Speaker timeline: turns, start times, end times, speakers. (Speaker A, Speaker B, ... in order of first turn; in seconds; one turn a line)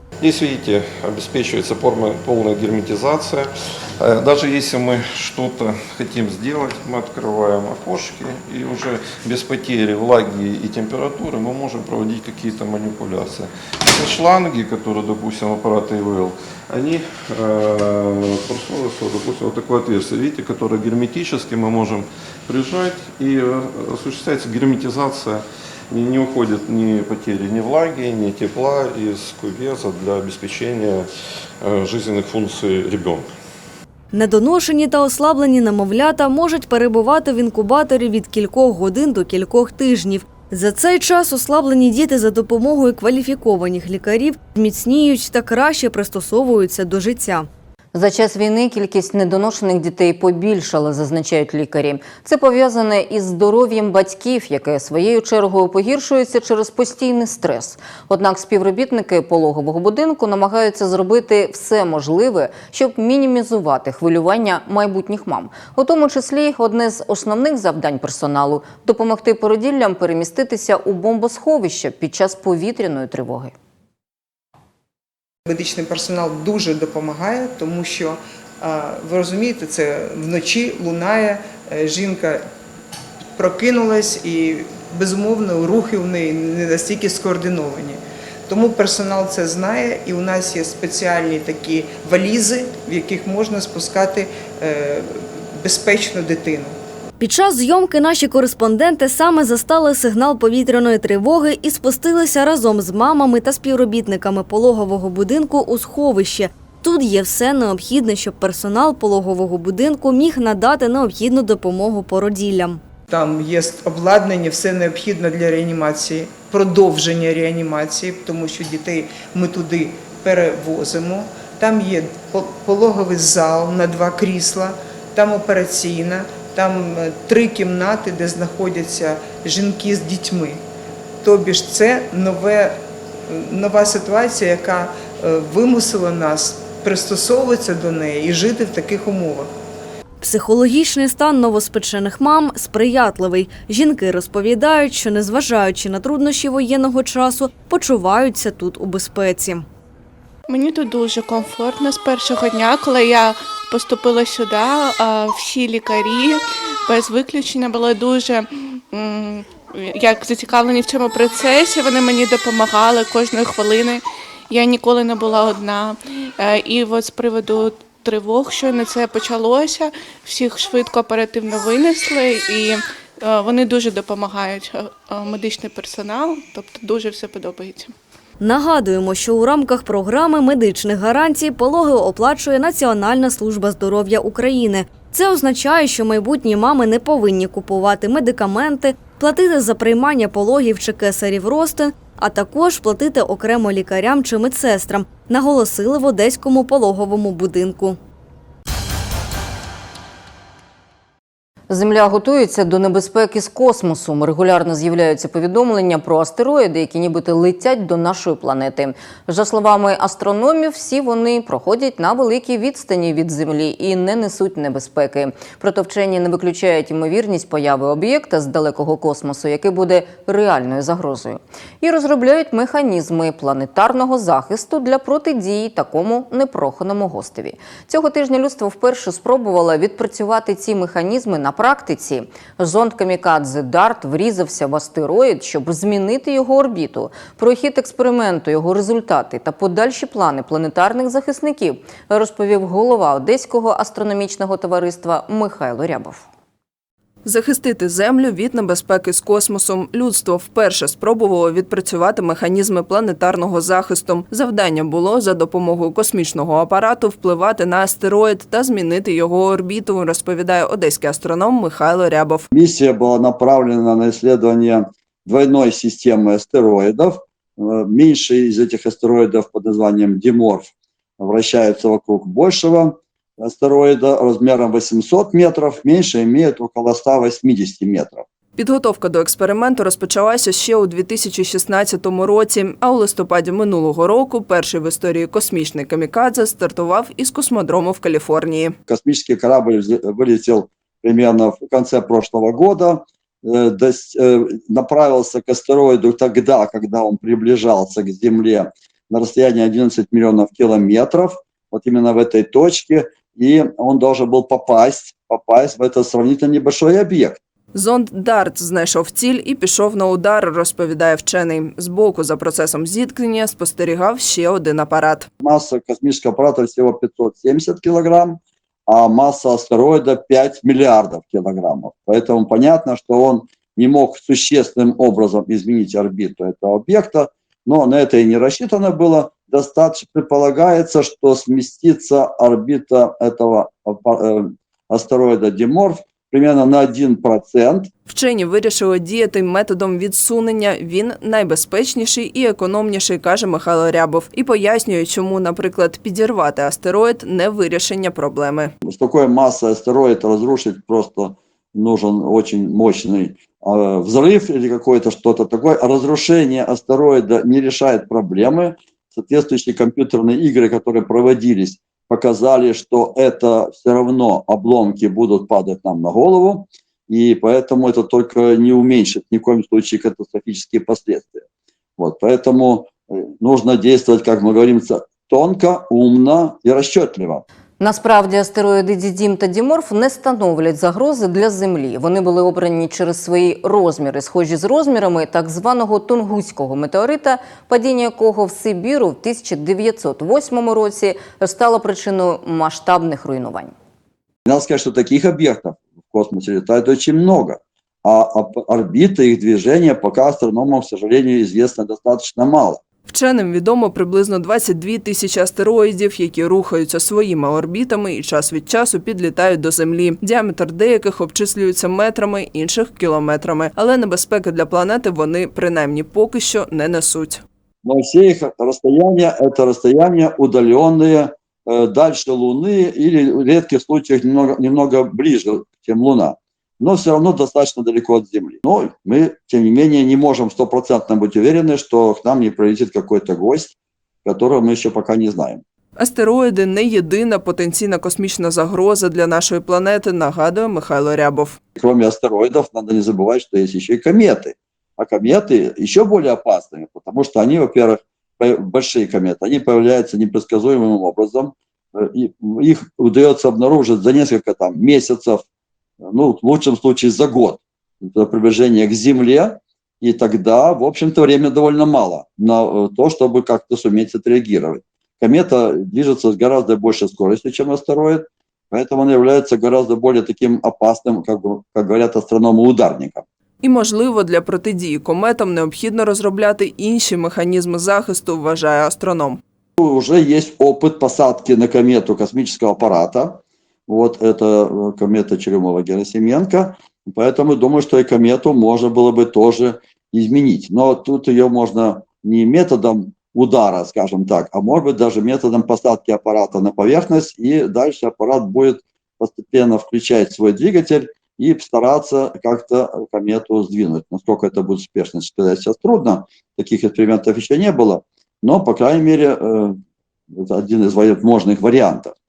Speaker A: 0.2-31.1
Speaker A: 31.6-33.3
Speaker B: 34.1-47.5
Speaker C: 47.9-73.5
Speaker D: 75.5-82.5
Speaker D: 83.3-96.8
Speaker B: 97.2-112.8
Speaker D: 113.1-130.6
Speaker D: 131.2-132.8
Speaker D: 133.3-139.5
Speaker B: 140.2-149.7
Speaker E: 150.5-177.9
Speaker B: 178.4-198.0
Speaker C: 201.7-246.3
Speaker F: 247.2-262.5
Speaker G: 262.5-278.2
Speaker F: 278.6-288.8
Speaker G: 288.9-307.4
Speaker F: 307.7-315.3
Speaker G: 315.4-337.9
Speaker F: 338.1-348.7
Speaker G: 348.8-371.4
Speaker G: 372.0-377.4
Speaker C: 377.8-393.7
Speaker G: 394.4-402.8
Speaker F: 403.1-417.4
Speaker G: 417.8-435.6
Speaker F: 436.0-441.6
Speaker G: 441.8-455.4
Speaker G: 456.0-473.2
Speaker F: 473.6-479.4
Speaker G: 479.8-509.8
Speaker G: 510.3-512.1